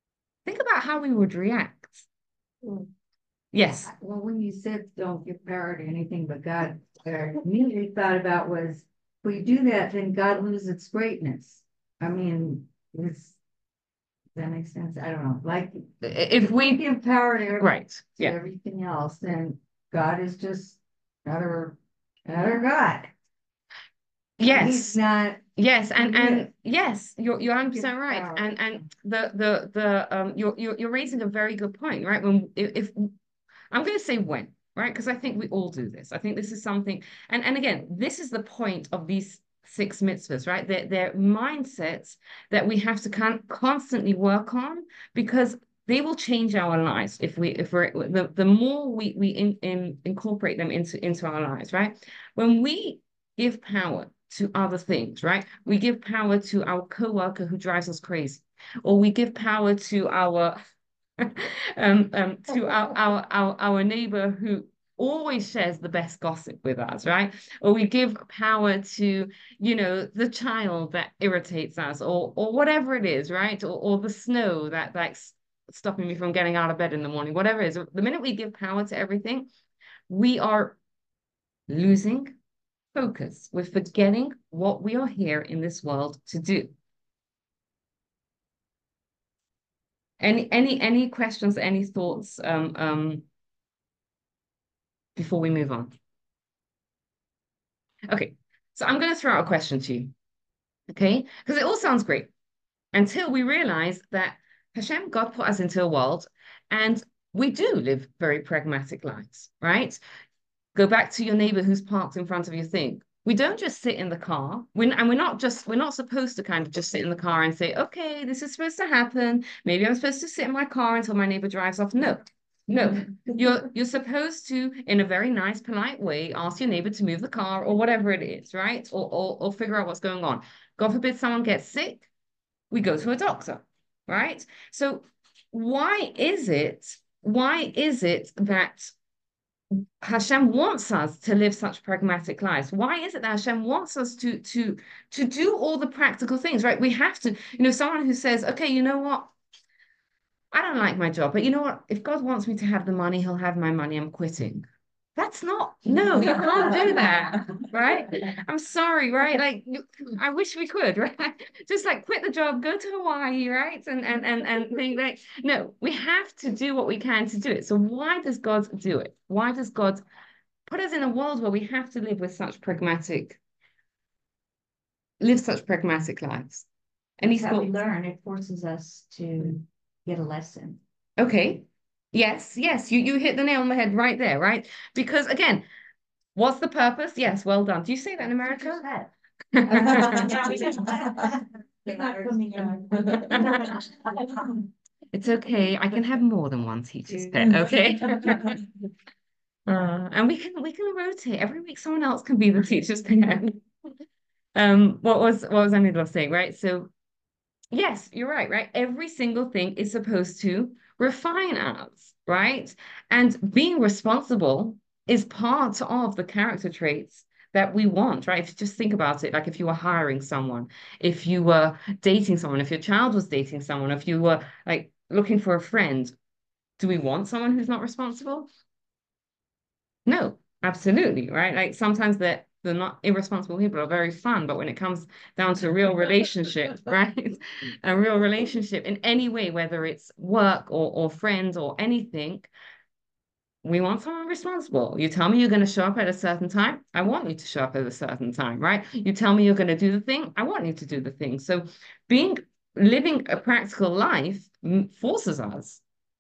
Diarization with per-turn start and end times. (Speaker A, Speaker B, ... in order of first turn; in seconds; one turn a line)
Speaker A: 0.5-2.0
Speaker A: 3.5-3.9
Speaker B: 3.8-13.4
Speaker B: 14.3-15.9
Speaker A: 16.0-16.8
Speaker B: 16.4-17.7
Speaker A: 17.6-18.4
Speaker B: 18.2-23.1
Speaker A: 24.4-25.0
Speaker B: 24.4-25.4
Speaker A: 25.6-33.1
Speaker B: 26.0-26.5
Speaker B: 27.7-28.5
Speaker A: 33.7-60.6
Speaker A: 61.2-79.5
Speaker A: 80.1-80.8
Speaker A: 81.7-82.3
Speaker A: 82.9-86.7
Speaker A: 90.2-93.2
Speaker A: 95.2-95.9
Speaker A: 98.1-100.1
Speaker A: 100.9-102.3
Speaker A: 102.9-110.0
Speaker A: 110.7-132.1
Speaker A: 132.7-138.9
Speaker A: 140.0-149.3
Speaker A: 150.5-170.0
Speaker A: 170.7-173.4
Speaker A: 175.2-176.7
Speaker A: 177.2-177.7
Speaker C: 177.2-180.8
Speaker A: 181.2-185.6
Speaker A: 186.3-188.9
Speaker A: 189.5-190.4
Speaker B: 189.7-191.3
Speaker C: 189.9-191.3
Speaker C: 191.8-193.9
Speaker B: 191.9-192.3
Speaker B: 193.1-193.6
Speaker A: 195.1-198.6
Speaker A: 199.7-203.6
Speaker A: 204.5-206.9
Speaker A: 207.7-226.1
Speaker A: 226.8-228.5
Speaker A: 230.1-242.5
Speaker A: 243.6-255.8